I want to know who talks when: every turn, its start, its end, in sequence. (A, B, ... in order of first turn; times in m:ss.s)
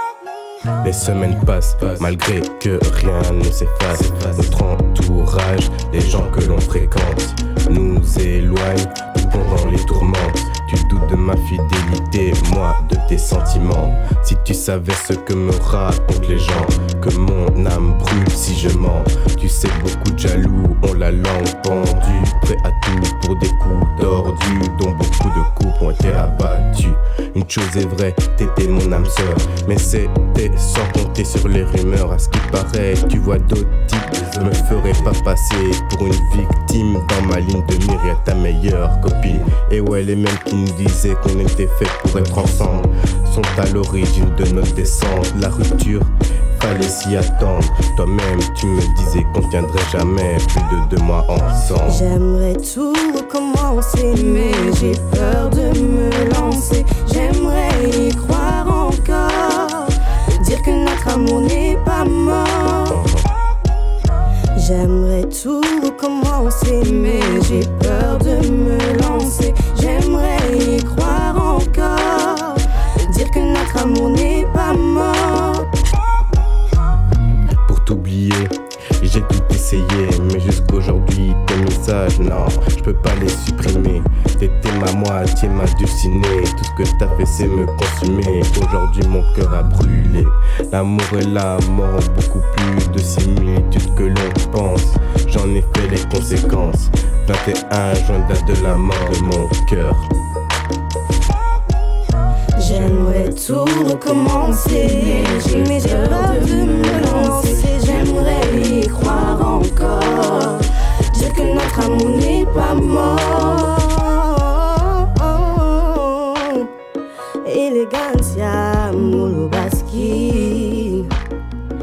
0:00.8-0:52.0 A
0:51.8-1:03.0 B
1:02.9-1:03.3 A
1:04.5-1:15.7 B
1:17.6-1:40.1 A
1:42.5-1:56.7 B
1:57.4-2:01.2 B